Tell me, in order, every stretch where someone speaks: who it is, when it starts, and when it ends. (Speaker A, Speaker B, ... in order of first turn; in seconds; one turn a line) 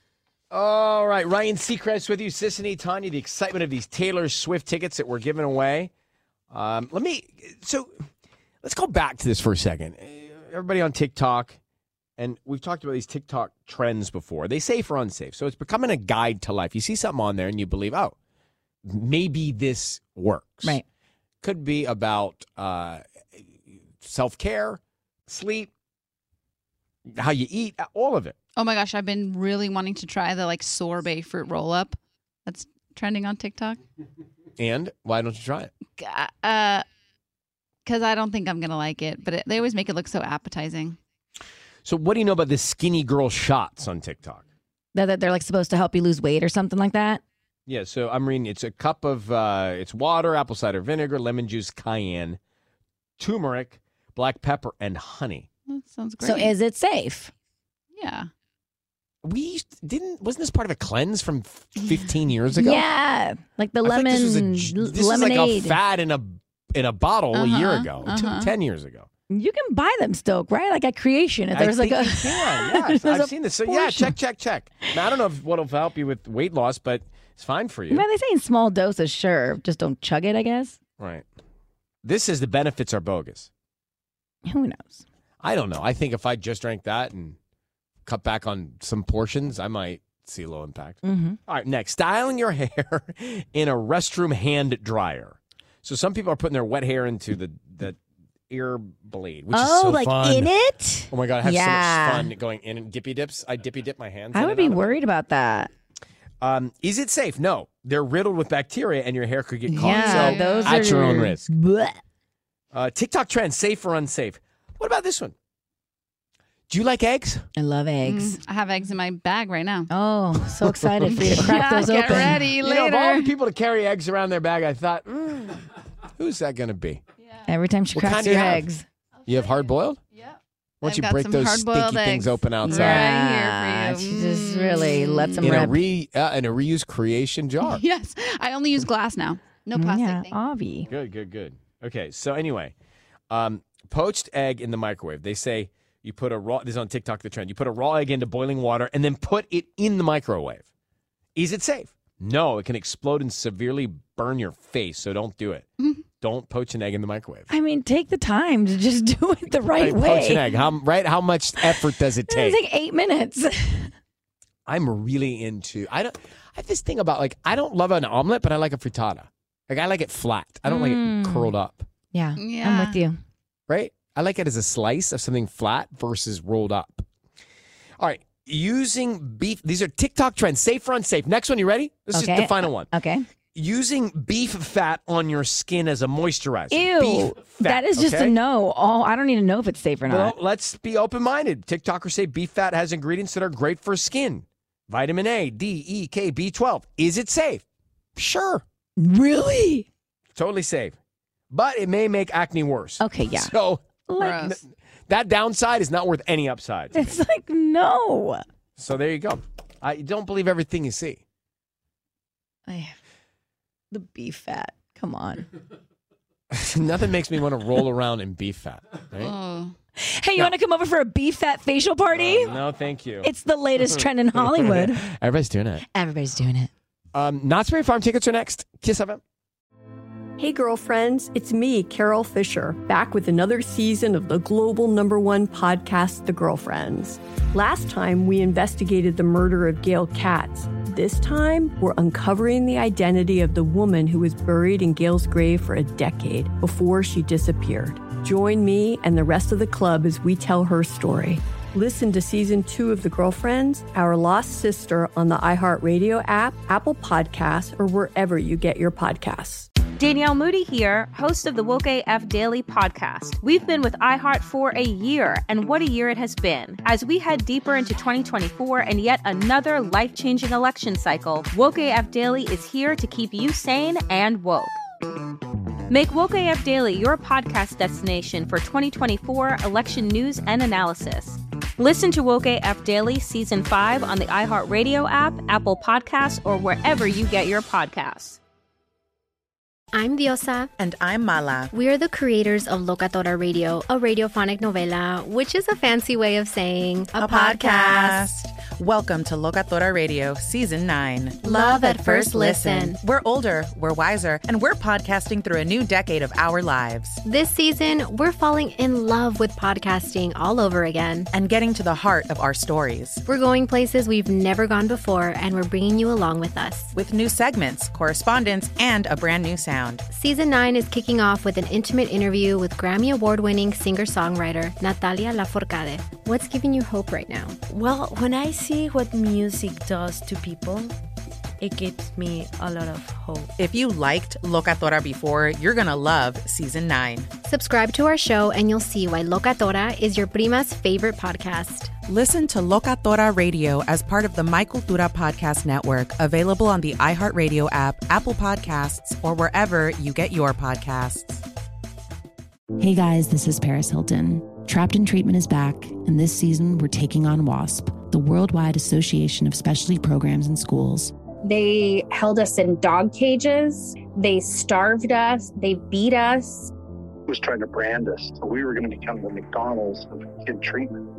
Speaker A: 0.5-5.9
Speaker A: 6.5-7.9
Speaker A: 8.6-11.6
Speaker A: 12.2-18.1
Speaker A: 18.9-20.8
Speaker A: 21.4-25.7
Speaker A: 27.1-28.4
Speaker B: 28.6-33.8
Speaker A: 34.6-35.7
Speaker B: 36.0-36.9
Speaker B: 37.8-41.0
Speaker A: 41.8-44.5
Speaker C: 44.9-47.2
Speaker A: 47.7-52.4
Speaker A: 53.2-55.5
Speaker B: 55.7-56.6
Speaker C: 56.2-57.3
Speaker B: 57.9-58.3
Speaker A: 59.2-62.9
Speaker C: 62.6-65.8
Speaker A: 63.8-69.1
Speaker B: 67.3-68.5
Speaker C: 69.3-74.1
Speaker A: 71.5-78.1
Speaker C: 77.9-80.8
Speaker A: 81.0-81.2
Speaker A: 82.0-83.5
Speaker C: 84.5-85.0
Speaker A: 85.4-87.3
Speaker A: 88.0-98.0
Speaker C: 91.0-91.4
Speaker A: 98.5-100.5
Speaker C: 99.5-102.3
Speaker A: 101.1-105.0
Speaker C: 104.3-105.7
Speaker A: 106.4-111.5
Speaker C: 109.7-112.0
Speaker B: 109.8-110.7
Speaker A: 112.7-115.3
Speaker A: 116.7-117.5
Speaker C: 117.5-118.3
Speaker B: 118.0-119.9
Speaker C: 119.9-122.5
Speaker A: 120.7-121.4
Speaker B: 121.0-123.3
Speaker A: 122.5-125.6
Speaker A: 126.2-127.0
Speaker C: 127.5-128.8
Speaker A: 127.9-128.7
Speaker A: 129.2-130.0
Speaker B: 130.1-135.5
Speaker A: 130.8-133.1
Speaker C: 132.8-135.8
Speaker A: 135.4-137.8
Speaker B: 137.6-140.5
Speaker C: 139.8-140.9
Speaker A: 140.9-142.7
Speaker A: 143.3-150.7
Speaker A: 151.3-157.5
Speaker C: 157.5-160.6
Speaker A: 159.8-162.6
Speaker C: 161.6-163.9
Speaker A: 164.7-171.9
Speaker C: 170.7-171.5
Speaker C: 172.1-173.1
Speaker B: 172.3-173.0
Speaker A: 173.7-177.1
Speaker A: 178.0-182.9
Speaker C: 182.1-183.2
Speaker A: 183.5-188.4
Speaker C: 186.7-190.3
Speaker A: 190.1-197.6
Speaker A: 198.2-198.6
Speaker C: 199.0-199.8
Speaker A: 200.3-200.9
Speaker A: 201.5-207.2
Speaker C: 203.0-203.5
Speaker C: 204.1-204.3
Speaker B: 204.2-204.6
Speaker C: 206.9-208.4
Speaker A: 208.8-211.2
Speaker C: 212.7-212.9
Speaker C: 213.9-215.5
Speaker A: 216.5-219.3
Speaker B: 219.2-219.8
Speaker C: 220.0-222.5
Speaker A: 222.1-225.8
Speaker C: 223.2-225.0
Speaker C: 225.9-226.7
Speaker A: 227.1-229.2
Speaker D: 230.4-259.7
Speaker E: 260.0-274.8
Speaker E: 275.9-288.4
Speaker F: 289.9-290.7
Speaker G: 290.8-291.7
Speaker F: 291.7-298.2
Speaker G: 297.1-307.2
Speaker F: 301.4-303.0
Speaker F: 307.2-311.3
Speaker G: 311.3-313.2
Speaker F: 313.2-316.9
Speaker G: 316.9-320.0
Speaker F: 320.1-327.6
Speaker H: 327.7-331.0
Speaker H: 331.6-333.5
Speaker G: 333.6-337.3
Speaker F: 337.5-341.9
Speaker G: 342.1-351.4
Speaker I: 352.8-361.1
Speaker J: 361.4-366.7
Speaker K: 367.3-371.0